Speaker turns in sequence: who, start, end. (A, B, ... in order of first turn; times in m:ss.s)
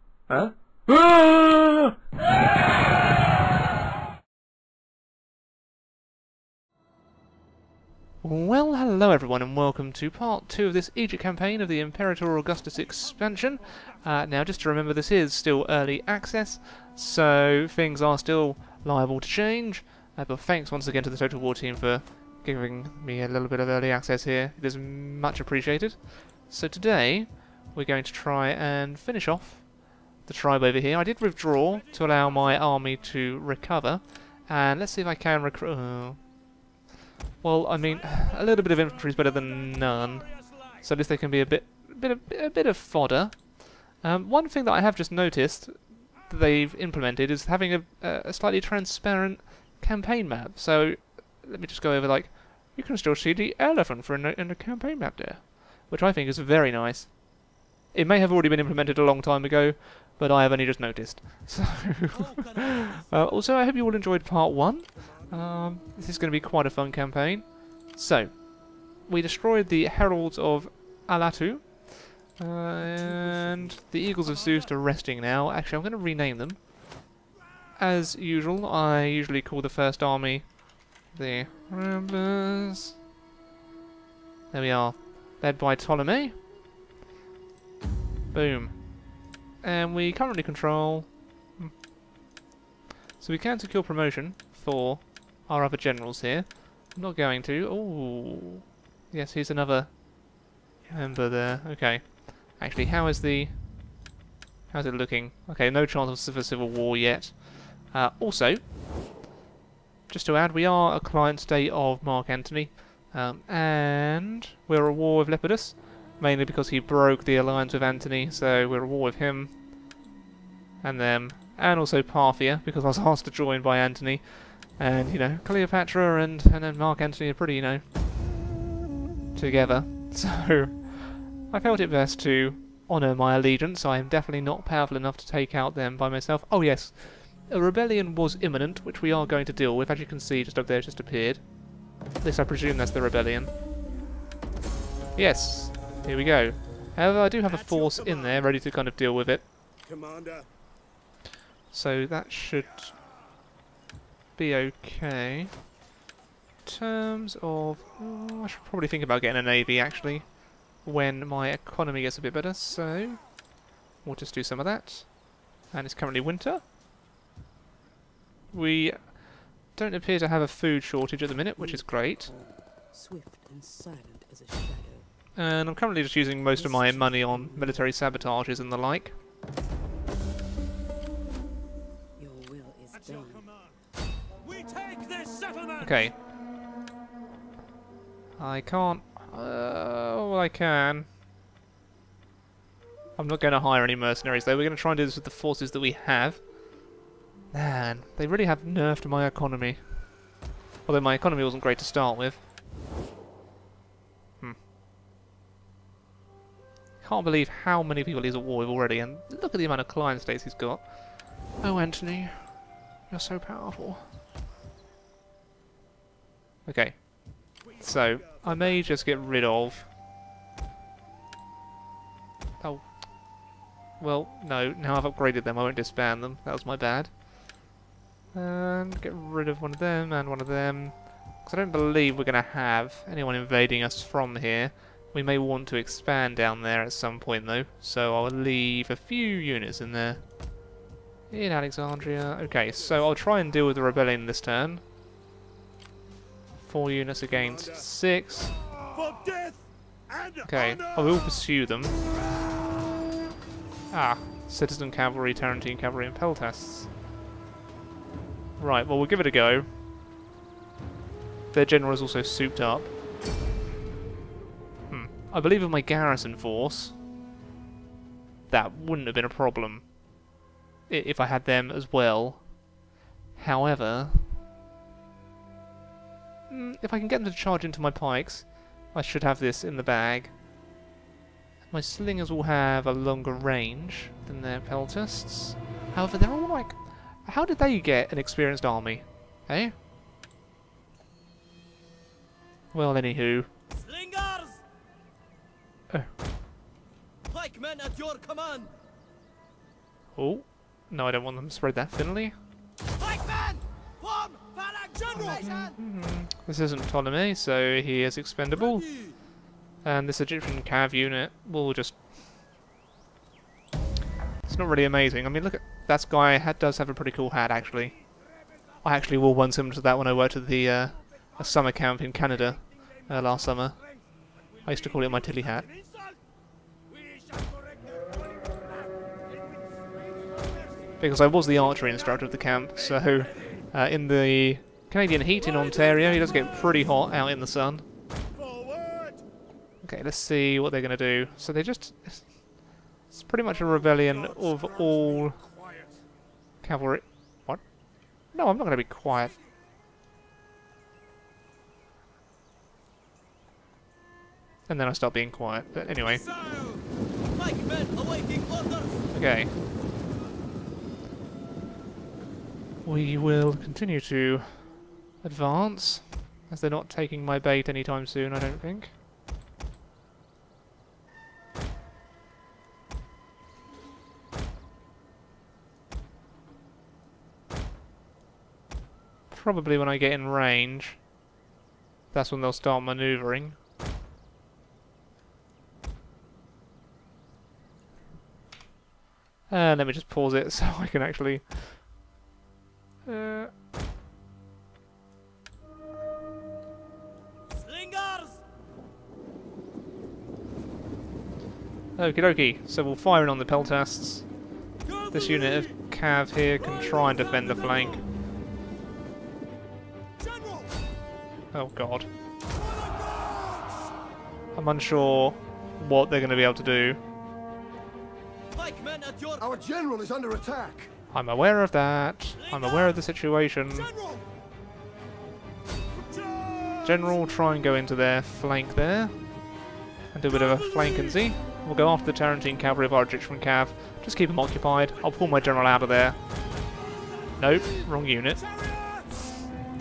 0:08.2-0:36.2 A
0:12.9-0:14.0 B
0:31.7-0:32.6 B
0:37.4-0:57.2 A
0:37.7-0:40.8 B
0:57.9-1:16.6 A
1:02.1-1:03.5 B
1:05.0-1:05.4 B
1:12.8-1:13.9 C
1:14.2-1:14.7 B
1:17.8-1:23.0 A
1:24.5-1:26.4 A
1:28.3-1:29.0 A
1:29.6-1:31.8 A
1:33.2-1:40.0 A
1:40.9-1:43.7 A
1:44.7-1:48.6 A
1:50.1-1:59.6 A
2:00.8-2:07.8 A
2:09.4-2:21.5 A
2:22.2-2:23.5 A
2:25.2-2:29.5 A
2:27.5-2:28.4 B
2:29.9-2:30.4 D
2:31.7-2:33.0 A
2:34.4-2:35.6 A
2:36.6-2:43.4 A
2:44.0-2:46.6 A
2:48.5-2:52.3 A
2:51.6-2:55.1 C
2:55.4-2:59.2 A
2:56.5-2:57.9 C
3:02.2-3:03.5 C
3:02.9-3:03.8 B
3:04.4-3:06.1 B
3:05.8-3:06.1 A
3:08.4-3:11.1 A
3:13.2-3:16.5 A
3:17.5-3:19.8 A
3:20.9-3:22.4 A
3:27.0-3:34.1 A
3:36.7-3:39.9 A
3:37.6-3:38.8 B
3:42.6-3:42.9 A
3:44.0-3:47.2 A
3:48.3-4:00.2 A
4:01.3-4:04.8 A
4:06.6-4:08.6 A
4:08.9-4:11.4 B
4:10.4-4:12.0 A
4:13.9-4:16.9 A
4:18.6-4:19.7 A
4:21.5-4:22.9 A
4:24.9-4:27.0 A
4:28.5-4:29.9 A
4:30.9-4:32.5 A
4:33.4-4:34.3 A
4:36.5-4:40.3 A
4:41.7-4:49.8 A
4:52.7-4:53.5 A
4:53.7-4:54.6 E
4:57.3-4:58.7 E
5:00.2-5:02.4 A
5:03.0-5:05.8 E
5:05.0-5:05.5 B
5:05.1-5:08.9 A
5:08.5-5:09.2 B
5:09.8-5:12.0 A
5:14.5-5:18.0 A
5:18.8-5:23.8 A
5:23.0-5:26.2 B
5:24.7-5:25.7 A
5:26.9-5:31.0 B
5:31.0-5:37.8 A
5:32.8-5:33.6 B
5:35.5-5:36.7 B
5:38.4-5:39.2 B
5:39.8-5:42.3 A
5:43.1-5:45.4 A
5:43.5-5:46.0 B
5:46.6-5:47.6 A
5:48.3-5:49.4 A
5:54.7-5:56.2 A
5:56.0-5:56.8 B
5:57.3-5:59.0 E
5:59.1-5:59.5 A
6:02.8-6:08.9 A
6:19.3-6:21.0 A
6:22.1-6:23.6 A
6:29.5-6:31.8 A
6:33.1-6:33.5 A
6:37.5-6:38.4 E
6:42.0-6:44.3 A
6:44.8-6:45.8 B
6:45.1-6:48.0 A
6:46.6-6:48.0 B
6:50.2-6:50.7 B
6:51.5-6:52.1 A
6:52.5-6:53.9 B
6:54.6-6:57.0 A
6:58.5-6:59.5 E
6:59.4-7:00.9 D
7:01.1-7:03.9 A
7:02.4-7:03.0 E
7:03.9-7:04.2 B
7:05.9-7:07.2 B
7:06.8-7:09.1 A
7:10.1-7:16.2 A
7:10.3-7:11.3 B
7:15.0-7:15.9 B
7:16.7-7:19.4 B
7:17.4-7:18.4 A